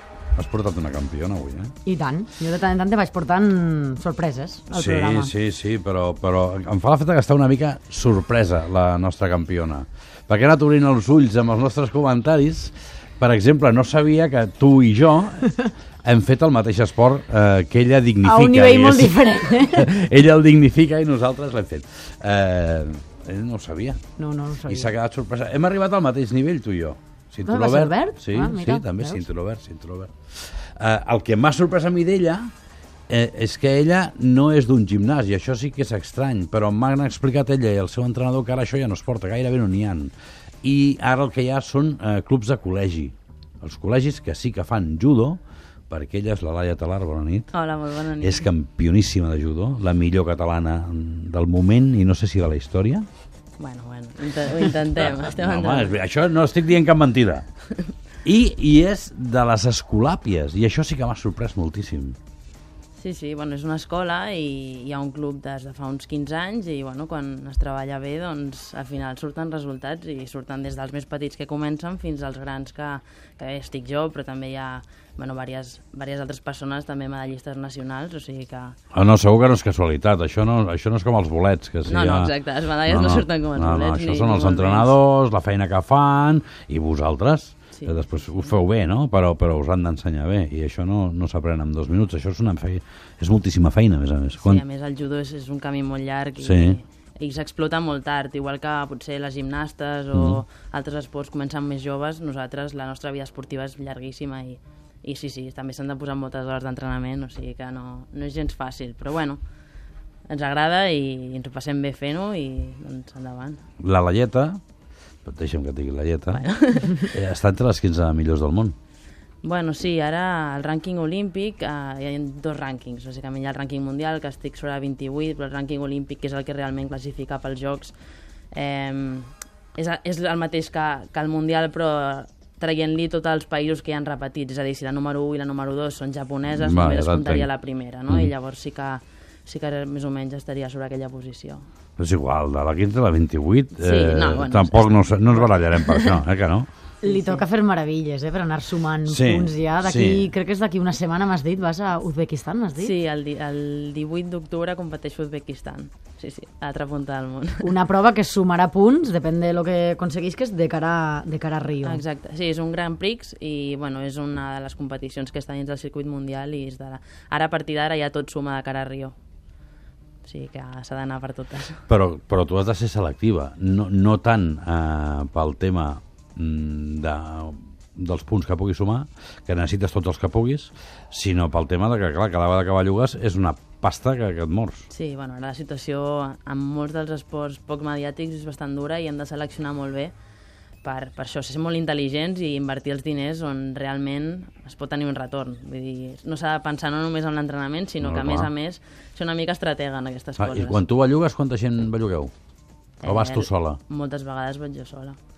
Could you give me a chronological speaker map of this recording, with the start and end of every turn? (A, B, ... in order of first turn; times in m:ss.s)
0:00.4-0:01.7 A
0:01.8-0:05.3 B
0:04.7-0:24.0 A
0:18.2-0:19.9 B
0:24.2-0:24.9 B
0:24.7-0:32.5 A
0:27.4-0:29.3 B
0:33.1-0:47.5 A
0:47.5-0:48.5 C
0:48.2-0:53.0 A
0:53.6-0:56.0 C
0:55.0-0:57.4 A
0:58.2-1:02.2 A
1:03.0-1:18.8 C
1:18.9-1:22.3 A
1:21.8-1:25.0 C
1:22.8-1:34.6 A
1:27.7-1:28.5 C
1:34.4-1:49.4 C
1:36.4-1:36.8 A
1:40.1-1:40.4 A
1:50.3-1:53.6 C
1:53.8-1:54.6 A
1:55.2-1:58.7 A
1:56.3-1:57.1 C
1:59.4-2:07.9 C
2:08.5-2:21.6 C
2:16.5-2:17.5 A
2:22.0-2:26.7 A
2:23.8-2:26.2 C
2:27.0-2:32.9 B
2:27.0-2:27.4 C
2:29.0-2:30.3 A
2:32.8-2:37.7 C
2:37.6-2:42.0 B
2:41.8-2:49.1 C
2:50.2-2:51.8 C
2:51.9-3:04.9 A
3:04.9-3:10.1 C
3:10.8-3:20.8 C
3:18.0-3:18.5 A
3:20.4-3:22.3 A
3:23.0-3:25.2 C
3:23.0-3:23.8 A